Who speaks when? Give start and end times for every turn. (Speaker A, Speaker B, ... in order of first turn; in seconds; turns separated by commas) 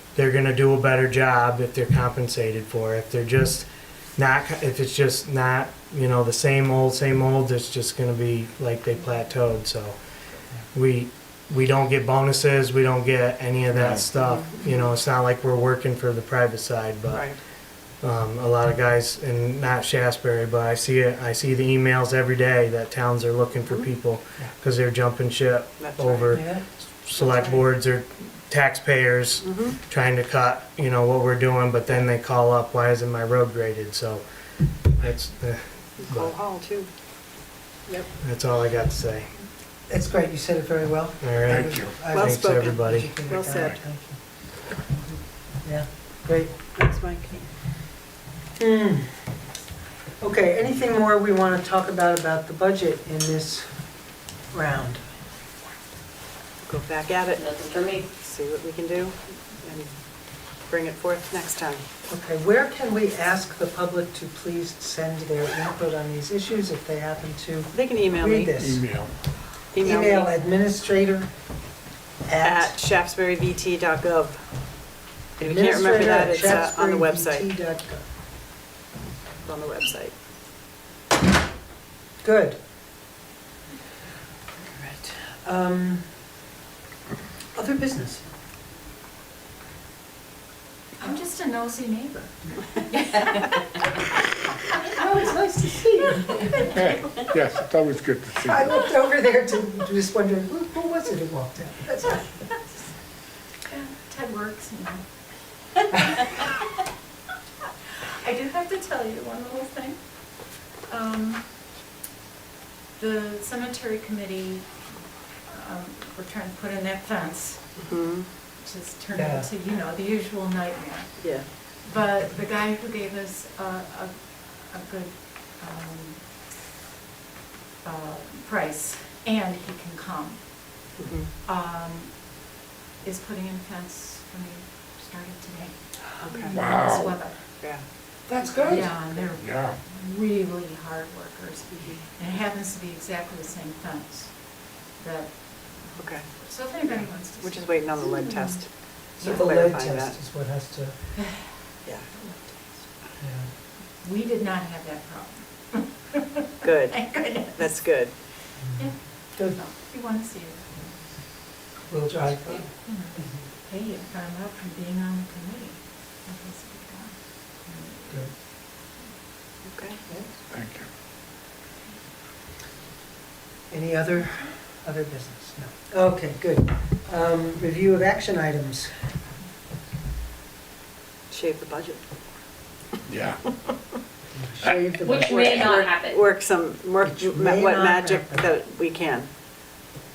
Speaker A: 0.1-10.0, Speaker A: 10.7-17.3, Speaker B: 13.7-14.1, Speaker C: 17.1-17.4, Speaker A: 18.0-34.2, Speaker C: 25.8-26.4, Speaker D: 26.3-26.6, Speaker C: 27.2-27.6, Speaker C: 29.4-29.8, Speaker A: 34.9-36.3, Speaker C: 36.0-36.9, Speaker A: 38.2-39.3, Speaker D: 39.9-44.2, Speaker A: 41.2-43.1, Speaker B: 41.5-42.0, Speaker C: 42.1-43.8, Speaker D: 45.6-46.5, Speaker C: 46.6-47.5, Speaker D: 48.6-49.2, Speaker D: 50.2-53.7, Speaker D: 54.5-55.0, Speaker C: 56.6-57.4, Speaker E: 57.4-58.1, Speaker C: 58.1-61.8, Speaker D: 62.1-68.8, Speaker C: 67.7-68.5, Speaker B: 68.5-69.1, Speaker C: 69.7-70.3, Speaker D: 69.8-71.3, Speaker D: 72.2-72.7, Speaker C: 72.4-74.4, Speaker C: 75.4-77.5, Speaker D: 75.4-78.0, Speaker C: 79.4-80.1, Speaker D: 82.2-82.6, Speaker D: 84.8-86.1, Speaker D: 87.5-88.2, Speaker F: 91.0-93.4, Speaker D: 94.8-96.7, Speaker B: 96.7-98.8, Speaker D: 98.4-102.2, Speaker F: 103.7-105.0, Speaker F: 105.8-106.5, Speaker F: 108.1-110.0, Speaker F: 110.8-111.4, Speaker F: 113.0-114.7, Speaker F: 115.5-117.8, Speaker C: 117.8-118.3, Speaker F: 118.6-126.3, Speaker D: 119.1-119.5, Speaker C: 121.2-121.5, Speaker F: 127.8-137.4, Speaker C: 131.0-131.3, Speaker C: 136.2-136.5, Speaker B: 136.5-137.2, Speaker C: 137.6-137.9, Speaker B: 138.3-139.8, Speaker F: 138.3-148.4, Speaker C: 146.0-146.3, Speaker C: 147.3-150.1, Speaker D: 149.2-151.1, Speaker F: 151.2-151.5, Speaker C: 151.8-152.1, Speaker D: 153.2-153.5, Speaker F: 154.0-156.2, Speaker C: 156.6-158.2, Speaker F: 156.9-157.7, Speaker D: 158.6-159.6, Speaker F: 158.8-160.8, Speaker D: 161.9-163.3, Speaker F: 162.8-168.3, Speaker C: 169.6-170.0, Speaker B: 170.5-170.9, Speaker D: 173.7-178.9, Speaker C: 181.3-182.1, Speaker B: 183.1-183.4, Speaker C: 183.4-183.8, Speaker D: 184.3-185.7, Speaker E: 185.0-186.2, Speaker C: 185.2-189.3, Speaker D: 187.0-188.5